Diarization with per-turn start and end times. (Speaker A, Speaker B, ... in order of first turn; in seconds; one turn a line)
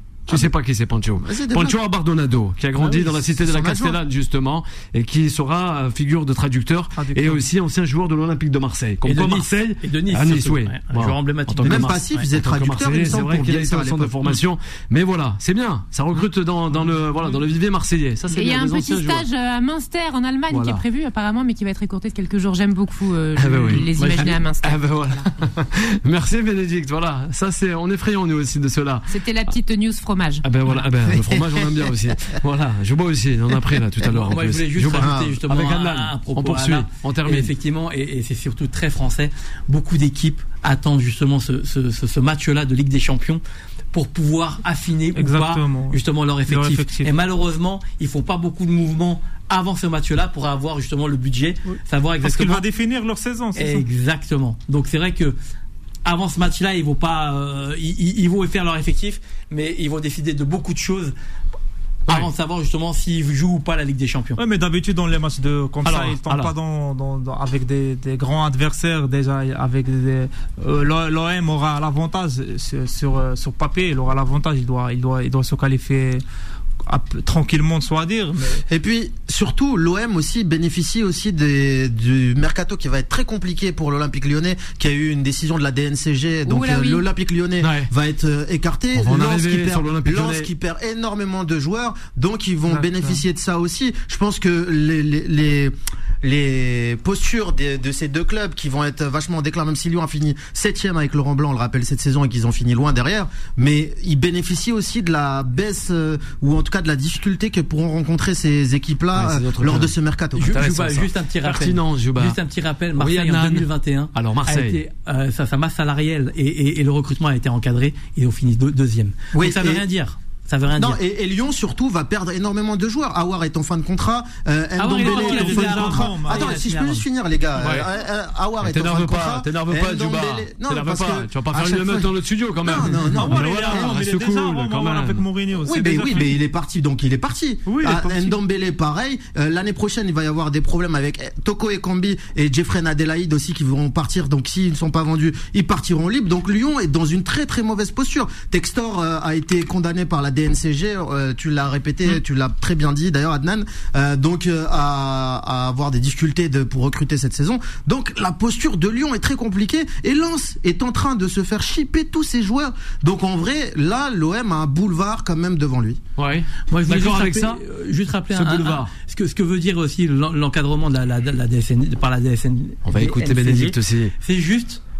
Speaker A: 0.3-19.2
Speaker B: 1.2-1.8
Speaker B: 2.8-4.0
Speaker C: 6.9-7.4
Speaker D: 9.0-12.2
Speaker B: 11.6-14.2
Speaker C: 16.7-17.4
Speaker E: 18.3-25.2
Speaker A: 20.5-20.8
Speaker A: 23.4-29.1
Speaker E: 29.1-30.4
Speaker A: 30.4-37.5
Speaker B: 31.1-31.9
Speaker D: 34.1-43.4
Speaker B: 35.0-35.4
Speaker D: 43.9-52.6
Speaker C: 45.1-47.1
Speaker C: 52.2-53.8
Speaker D: 53.5-55.4
Speaker D: 56.0-61.1
Speaker D: 62.1-64.4
Speaker C: 64.4-76.2
Speaker A: 65.8-66.5
Speaker C: 76.8-78.6
Speaker B: 78.7-110.6
Speaker E: 86.4-87.0
Speaker A: 87.6-87.9
Speaker A: 89.0-90.5
Speaker C: 92.7-93.2
Speaker A: 109.1-109.9
Speaker D: 110.4-121.0
Speaker A: 110.5-112.4
Speaker A: 113.0-114.8
Speaker B: 119.3-119.8
Speaker B: 120.8-133.9
Speaker D: 124.8-126.8
Speaker C: 124.9-127.0
Speaker A: 127.6-127.9
Speaker A: 128.6-135.2
Speaker C: 133.1-136.3
Speaker B: 135.6-166.0
Speaker C: 137.7-138.3
Speaker A: 166.2-167.6
Speaker D: 166.7-174.8
Speaker A: 168.3-168.9
Speaker A: 172.8-174.1